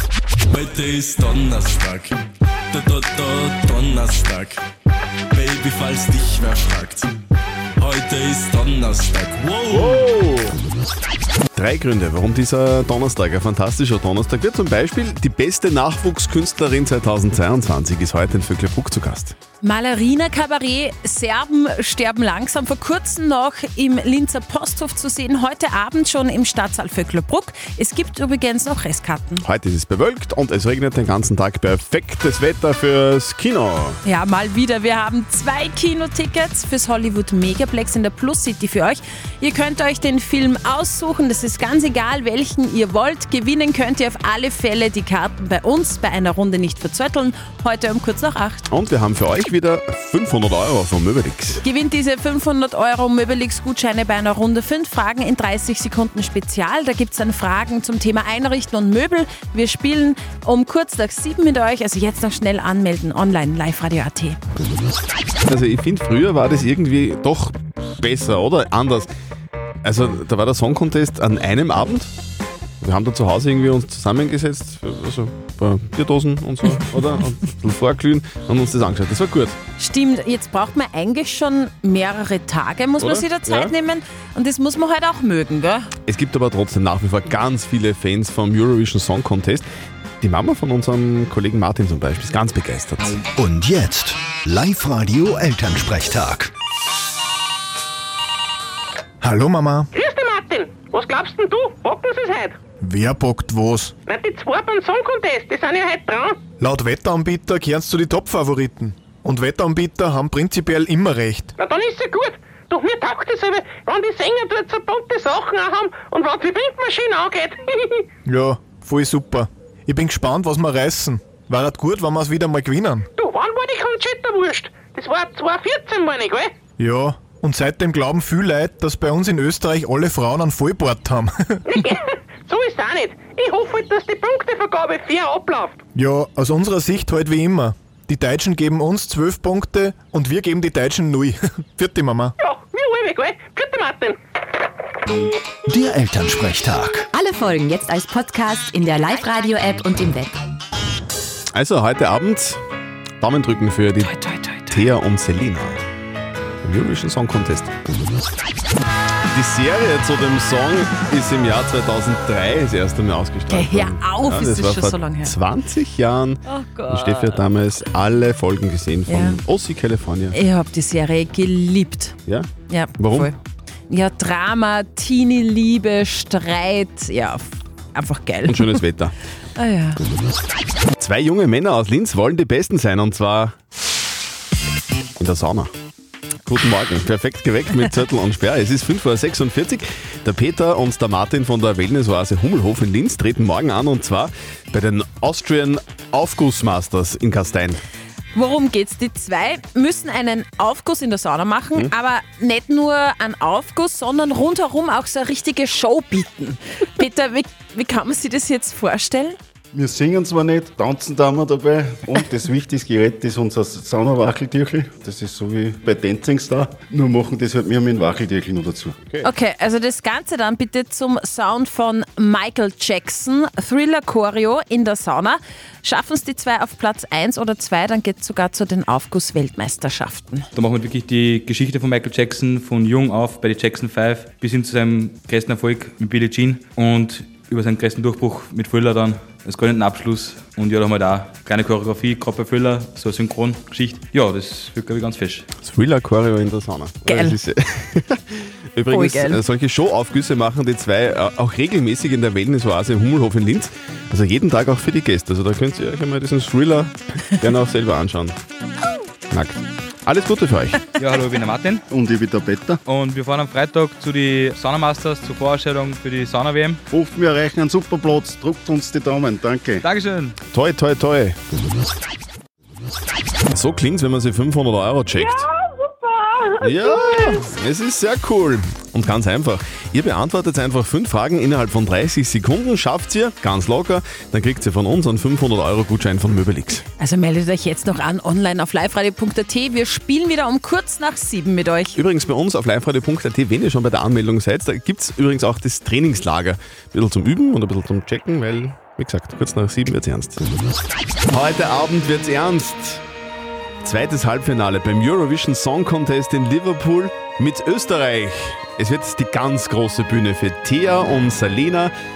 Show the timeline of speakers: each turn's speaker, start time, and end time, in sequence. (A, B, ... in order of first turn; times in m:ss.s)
0:00.5-0:02.1 A
0:02.7-0:04.6 A
0:05.3-0:07.1 A
0:07.8-0:10.0 A
0:09.7-0:10.6 B
0:11.5-0:19.4 B
0:19.6-0:29.4 C
0:29.4-0:34.0 B
0:34.0-0:48.7 C
0:48.7-0:51.6 B
0:51.6-1:04.4 C
1:05.5-1:09.1 B
1:09.8-1:12.1 B
1:12.8-1:19.6 B
1:19.8-1:25.9 C
1:23.0-1:23.7 B
1:26.1-1:29.7 B
1:30.2-1:33.2 B
1:33.4-1:33.9 A
1:33.6-1:36.4 D
1:34.5-1:36.3 A
1:39.2-1:39.9 E
1:39.9-1:42.6 F
1:42.8-1:43.9 E
1:44.1-1:46.4 F
1:46.6-1:51.5 E
1:51.6-1:58.0 F
1:58.3-2:03.1 E
2:03.2-2:06.5 F
2:06.8-2:11.6 E
2:11.7-2:15.8 F
2:16.0-2:22.3 E
2:22.4-2:24.2 F
2:25.7-2:26.5 A
2:25.8-2:27.0 D
2:27.2-2:30.4 G
2:31.5-2:32.6 B
2:33.2-2:34.1 B
2:34.0-2:34.9 C
2:34.7-2:35.8 B
2:36.6-2:37.7 B
2:39.3-2:50.4 B
2:43.5-2:45.4 C
2:46.5-2:47.4 C
2:49.1-2:49.4 C
2:50.3-2:52.2 C
2:52.3-2:53.3 B
2:52.7-2:53.4 C
2:53.9-2:57.4 C
2:58.0-2:58.8 C
2:58.5-2:59.1 B
2:59.6-3:00.0 C
3:01.0-3:03.6 B
3:05.2-3:05.7 B
3:06.5-3:17.8 B
3:18.3-3:29.4 C
3:29.7-3:39.0 H
3:39.2-3:50.5 C
3:50.6-4:05.5 I
4:05.6-4:18.4 B
4:07.1-4:07.4 C
4:08.9-4:09.4 C
4:19.3-4:20.8 B
4:21.0-4:21.8 I
4:21.9-4:22.8 H
4:22.9-4:26.8 I
4:26.9-4:29.8 H
4:29.8-4:30.4 I
4:30.5-4:31.4 B
4:33.5-4:35.5 B
4:36.6-4:46.8 B
4:47.0-4:52.0 C
4:52.0-5:00.4 B
5:01.3-5:03.0 B
5:03.8-5:11.9 B